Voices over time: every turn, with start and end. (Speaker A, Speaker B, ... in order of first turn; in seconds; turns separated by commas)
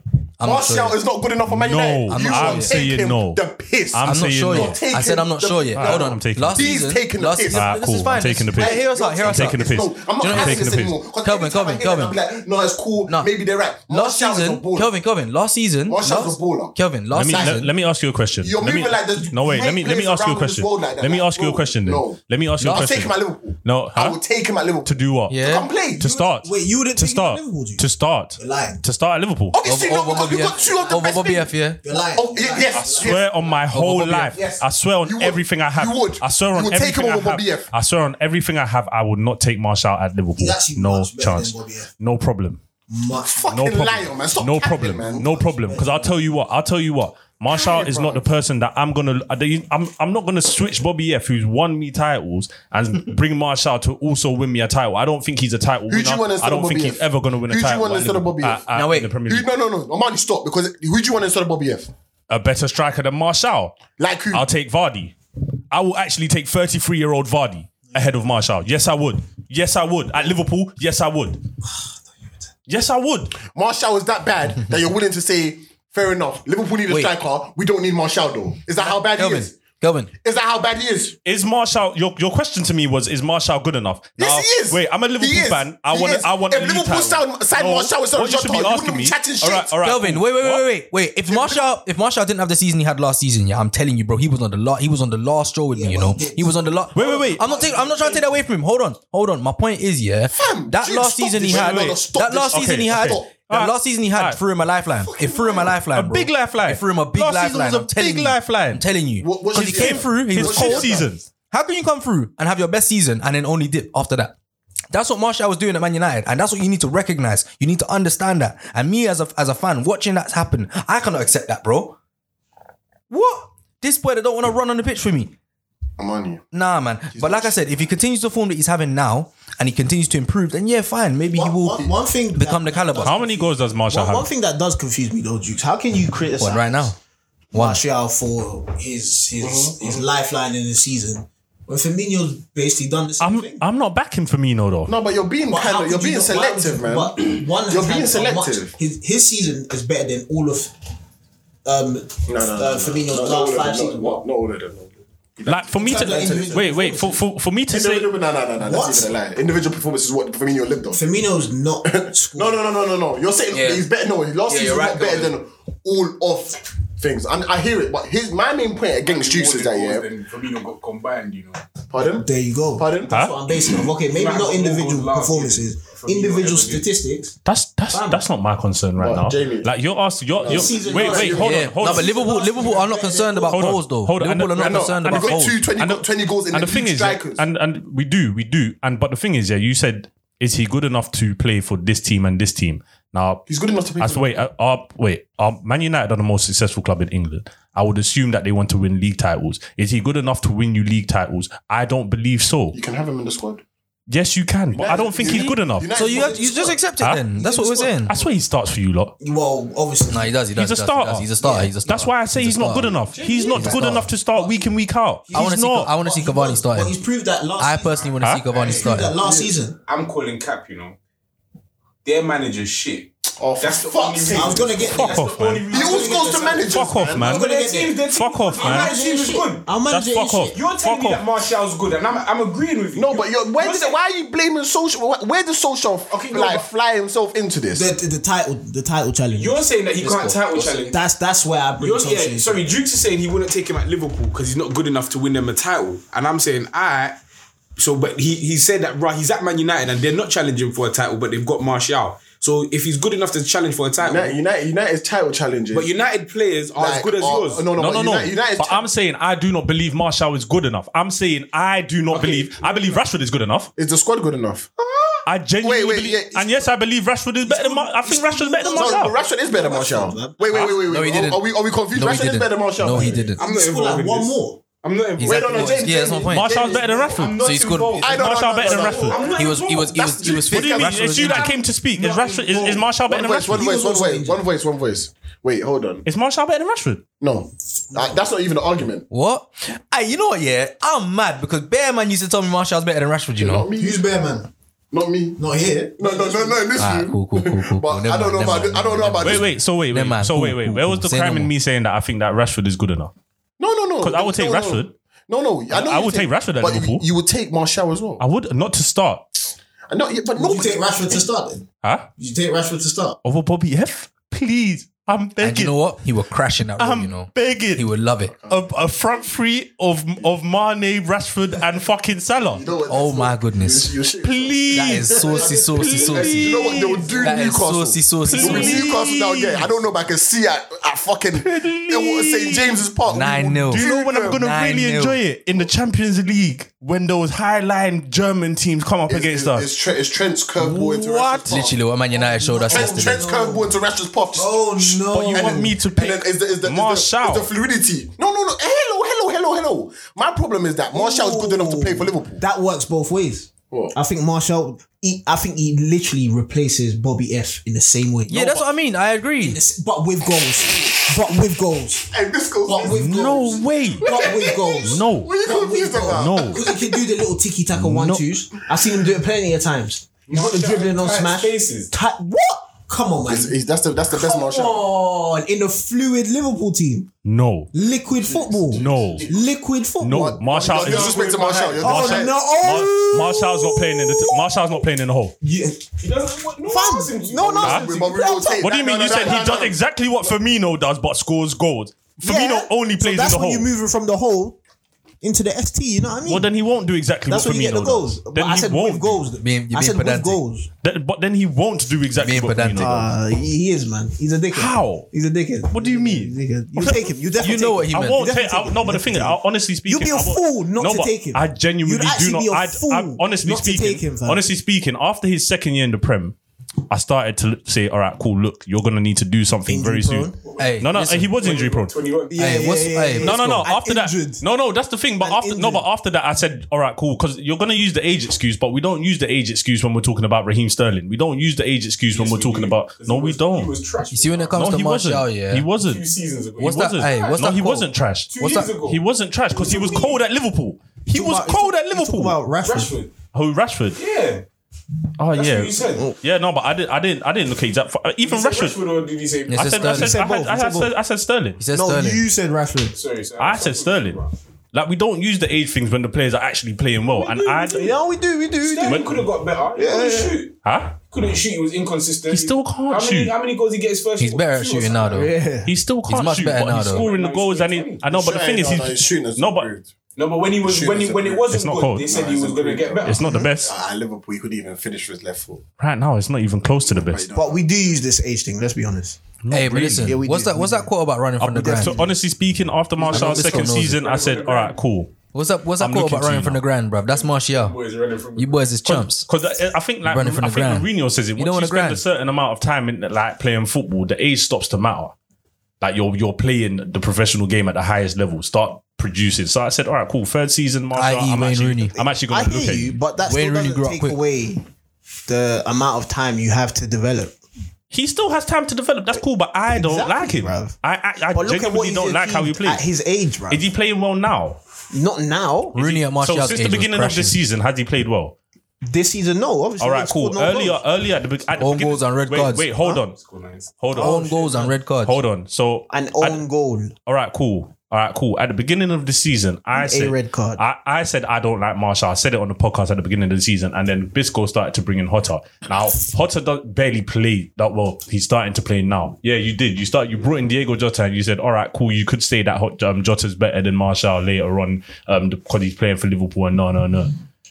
Speaker A: 0.4-1.0, Speaker B: 0.4-7.7, Speaker C: 1.5-3.4, Speaker A: 2.1-2.8, Speaker C: 3.9-4.8, Speaker A: 4.0-12.2, Speaker C: 5.7-6.7, Speaker C: 7.5-11.0, Speaker B: 8.6-14.9, Speaker A: 13.9-17.7, Speaker B: 15.9-16.7, Speaker C: 17.1-24.2, Speaker B: 17.3-17.6, Speaker B: 18.4-26.2, Speaker A: 22.6-22.9, Speaker C: 24.8-25.4, Speaker A: 25.3-25.7, Speaker C: 26.0-29.6, Speaker D: 26.2-27.9, Speaker D: 28.4-28.8, Speaker B: 29.5-33.3, Speaker A: 29.6-31.8, Speaker D: 29.8-31.3, Speaker D: 31.8-33.6, Speaker C: 32.7-42.6, Speaker A: 33.7-34.4, Speaker B: 34.3-37.7, Speaker D: 40.4-41.9, Speaker D: 42.9-43.5, Speaker B: 43.3-45.6, Speaker C: 43.5-59.5, Speaker D: 45.6-46.1, Speaker B: 47.5-48.3, Speaker B: 55.9-58.6, Speaker A: 58.7-59.1, Speaker B: 59.3-61.9, Speaker C: 62.3-65.1, Speaker B: 64.0-64.4, Speaker C: 65.7-71.4, Speaker C: 72.7-73.3, Speaker B: 73.4-79.5, Speaker A: 76.9-77.1, Speaker A: 78.8-80.1, Speaker B: 80.2-81.2, Speaker C: 81.2-90.7, Speaker B: 84.2-89.7, Speaker A: 89.8-114.3, Speaker B: 91.3-91.7, Speaker D: 95.7-98.2, Speaker C: 96.9-97.5, Speaker B: 100.3-103.3, Speaker C: 101.4-102.0, Speaker C: 102.5-104.4, Speaker B: 105.0-105.8, Speaker C: 105.9-108.8, Speaker B: 109.2-111.1, Speaker C: 109.6-111.2, Speaker A: 114.9-122.0, Speaker A: 123.1-125.3, Speaker B: 126.0-126.4, Speaker A: 126.5-133.2, Speaker B: 127.1-127.5, Speaker B: 131.4-131.9, Speaker D: 131.4-136.9, Speaker C: 133.0-134.3, Speaker A: 136.4-136.9, Speaker A: 137.5-137.8, Speaker D: 137.5-143.6, Speaker B: 139.4-140.0, Speaker C: 143.2-144.9, Speaker B: 144.9-148.7, Speaker D: 145.5-150.7, Speaker D: 151.6-154.2, Speaker B: 152.3-156.7, Speaker C: 155.4-158.1, Speaker D: 155.8-157.2, Speaker B: 157.7-161.0, Speaker D: 158.6-159.1, Speaker D: 160.9-162.6, Speaker B: 161.8-170.1, Speaker A: 163.5-163.8, Speaker A: 164.5-165.3, Speaker E: 169.0-171.6, Speaker B: 171.9-173.2, Speaker D: 172.0-177.3, Speaker C: 173.1-173.4, Speaker E: 174.1-176.9, Speaker C: 177.4-182.1, Speaker D: 177.9-178.2, Speaker B: 179.0-179.7, Speaker B: 180.4-181.4, Speaker D: 180.4-183.6, Speaker E: 181.0-181.3, Speaker A: 181.4-185.6, Speaker C: 183.5-193.4, Speaker B: 184.5-187.4, Speaker B: 193.5-194.3, Speaker C: 194.0-202.8, Speaker B: 202.7-203.6, Speaker C: 204.1-205.9, Speaker B: 204.7-206.8, Speaker A: 205.3-208.1, Speaker D: 206.0-206.8, Speaker C: 207.0-207.2, Speaker D: 207.3-208.3, Speaker C: 208.1-209.1, Speaker D: 209.2-210.4, Speaker A: 210.1-213.0, Speaker C: 210.5-211.3, Speaker D: 211.4-211.7, Speaker C: 211.8-215.9, Speaker B: 212.9-214.0, Speaker A: 213.5-214.1, Speaker D: 213.7-214.7, Speaker D: 215.3-219.8, Speaker A: 215.3-217.0, Speaker A: 217.6-219.2, Speaker C: 218.2-218.4, Speaker E: 218.5-221.0, Speaker B: 219.2-219.5, Speaker E: 222.0-226.7, Speaker B: 223.4-224.8, Speaker D: 224.3-230.6, Speaker C: 224.9-225.7, Speaker B: 225.7-227.4, Speaker C: 226.6-227.5, Speaker E: 227.2-229.7, Speaker C: 228.1-228.9, Speaker C: 229.9-231.3, Speaker E: 230.5-233.9, Speaker B: 232.9-237.9, Speaker E: 236.1-236.7, Speaker D: 237.7-239.7, Speaker E: 239.3-241.0, Speaker A: 240.0-240.9, Speaker D: 240.8-242.6, Speaker E: 241.8-247.2, Speaker E: 247.8-254.4, Speaker B: 254.0-255.9, Speaker E: 255.7-257.7, Speaker B: 256.8-258.9, Speaker C: 257.8-263.7, Speaker E: 262.1-263.0, Speaker B: 263.8-266.7, Speaker C: 265.2-269.1, Speaker D: 267.4-270.4, Speaker B: 268.7-273.3, Speaker A: 270.5-273.4, Speaker D: 272.9-274.6, Speaker E: 273.3-276.3, Speaker A: 275.2-276.6, Speaker B: 275.2-277.3, Speaker C: 276.3-277.5, Speaker E: 277.1-280.4, Speaker A: 277.4-278.1, Speaker B: 277.9-279.4, Speaker C: 278.0-279.3, Speaker A: 279.3-281.5, Speaker B: 279.9-281.4, Speaker C: 280.4-283.7, Speaker E: 282.0-282.6, Speaker D: 282.0-282.8, Speaker B: 283.0-286.1, Speaker D: 283.5-284.4, Speaker C: 286.1-287.0, Speaker B: 287.2-289.1, Speaker A: 289.1-293.7, Speaker B: 293.4-294.0, Speaker D: 293.8-294.5, Speaker B: 294.9-295.4, Speaker D: 295.4-296.6, Speaker B: 296.0-299.5, Speaker A: 296.8-301.5, Speaker C: 299.2-303.1, Speaker B: 303.6-308.2, Speaker C: 304.0-304.9, Speaker C: 305.7-307.1, Speaker C: 308.2-309.4, Speaker B: 309.9-311.2, Speaker D: 310.4-313.2, Speaker C: 311.8-312.1, Speaker C: 313.2-315.8, Speaker A: 315.4-318.4, Speaker C: 316.8-317.9, Speaker B: 318.3-318.7, Speaker C: 318.5-322.6, Speaker B: 322.4-334.4, Speaker A: 322.9-323.9, Speaker C: 324.2-327.1, Speaker A: 324.7-326.6, Speaker E: 326.0-327.0, Speaker A: 327.2-328.9, Speaker C: 328.2-329.7, Speaker C: 331.3-332.8, Speaker A: 333.1-335.2, Speaker C: 333.7-339.7, Speaker B: 339.1-341.8, Speaker C: 340.6-341.7, Speaker A: 341.5-343.2, Speaker D: 342.1-343.7, Speaker B: 342.7-352.4, Speaker D: 344.3-345.7, Speaker C: 345.1-347.5, Speaker D: 350.9-358.6, Speaker A: 358.3-359.6, Speaker D: 359.4-362.1, Speaker B: 362.1-367.0, Speaker D: 362.6-373.5, Speaker C: 362.8-364.1, Speaker C: 364.8-365.3, Speaker C: 366.1-366.6, Speaker C: 367.8-368.1, Speaker A: 367.8-368.2, Speaker B: 368.7-369.1, Speaker E: 370.3-371.9, Speaker B: 373.2-374.9, Speaker D: 374.1-377.1, Speaker C: 377.2-377.7, Speaker D: 377.7-380.4, Speaker B: 378.1-379.4, Speaker C: 378.7-379.3, Speaker C: 380.0-381.2, Speaker B: 380.1-382.5, Speaker E: 380.8-381.8, Speaker D: 380.9-384.8, Speaker C: 381.8-385.3, Speaker D: 385.4-385.9, Speaker E: 386.0-387.9, Speaker D: 386.6-389.4, Speaker B: 387.6-389.8, Speaker C: 387.6-387.9, Speaker C: 388.6-393.7, Speaker D: 392.2-394.6, Speaker D: 395.2-396.5, Speaker C: 396.2-399.2, Speaker D: 397.3-400.7, Speaker A: 399.4-400.4, Speaker C: 400.8-403.0, Speaker A: 402.1-403.1, Speaker D: 402.8-414.4, Speaker C: 404.5-405.1, Speaker C: 405.7-407.1, Speaker A: 407.4-408.2, Speaker C: 407.9-416.4, Speaker C: 416.9-421.9, Speaker D: 419.7-420.4, Speaker E: 420.4-422.7, Speaker A: 420.6-421.3, Speaker D: 422.3-424.4, Speaker A: 422.4-423.7, Speaker C: 423.1-433.8, Speaker D: 425.2-425.9, Speaker E: 432.1-434.6, Speaker A: 434.1-435.7, Speaker C: 434.6-436.0, Speaker E: 435.7-437.1, Speaker A: 436.6-438.7, Speaker C: 436.6-442.4, Speaker D: 437.1-437.4, Speaker E: 438.3-439.0, Speaker D: 439.6-440.1, Speaker E: 439.6-440.1, Speaker D: 441.1-442.9, Speaker E: 442.6-443.1, Speaker C: 443.3-444.0, Speaker E: 443.9-444.4, Speaker C: 445.2-448.8, Speaker E: 445.3-446.1, Speaker E: 448.2-449.8, Speaker A: 449.5-450.2, Speaker C: 449.5-451.6, Speaker D: 449.9-450.9, Speaker A: 451.6-452.2, Speaker D: 451.7-453.0, Speaker E: 452.9-454.3, Speaker C: 453.4-454.2, Speaker C: 454.7-457.9, Speaker E: 457.1-458.0, Speaker D: 457.7-459.1, Speaker E: 458.6-465.2, Speaker C: 458.8-459.1, Speaker D: 459.7-460.4, Speaker C: 460.6-461.0, Speaker C: 462.3-463.3, Speaker A: 464.2-465.3, Speaker D: 465.1-465.7, Speaker C: 465.6-469.7, Speaker A: 466.1-467.1, Speaker E: 466.8-468.1, Speaker B: 468.1-469.9, Speaker E: 470.1-473.3, Speaker B: 470.6-475.6, Speaker C: 471.5-472.1, Speaker C: 473.0-473.7, Speaker C: 475.8-477.3, Speaker B: 476.9-477.6, Speaker D: 477.3-479.2, Speaker C: 479.4-480.2, Speaker A: 479.5-481.9, Speaker D: 480.0-480.9, Speaker C: 481.4-485.1, Speaker D: 481.4-482.1, Speaker E: 483.0-484.8, Speaker A: 483.1-484.0, Speaker A: 485.3-487.8, Speaker C: 485.8-486.6, Speaker E: 487.1-488.6, Speaker A: 488.4-489.3, Speaker C: 488.8-495.1, Speaker A: 490.0-492.0, Speaker C: 495.8-503.0, Speaker A: 500.9-502.0, Speaker D: 502.3-504.6, Speaker A: 503.2-504.2, Speaker D: 505.3-507.4, Speaker C: 507.9-512.8, Speaker D: 509.7-510.7, Speaker D: 511.3-513.6, Speaker C: 513.5-514.6, Speaker D: 514.9-515.8, Speaker A: 515.7-517.4, Speaker C: 515.7-518.3, Speaker D: 518.8-520.8, Speaker C: 519.8-523.2, Speaker A: 521.6-522.7, Speaker E: 523.0-523.8, Speaker C: 523.8-526.4, Speaker A: 523.9-525.2, Speaker D: 524.0-524.7, Speaker D: 525.9-526.9, Speaker C: 527.0-547.1, Speaker D: 529.7-530.6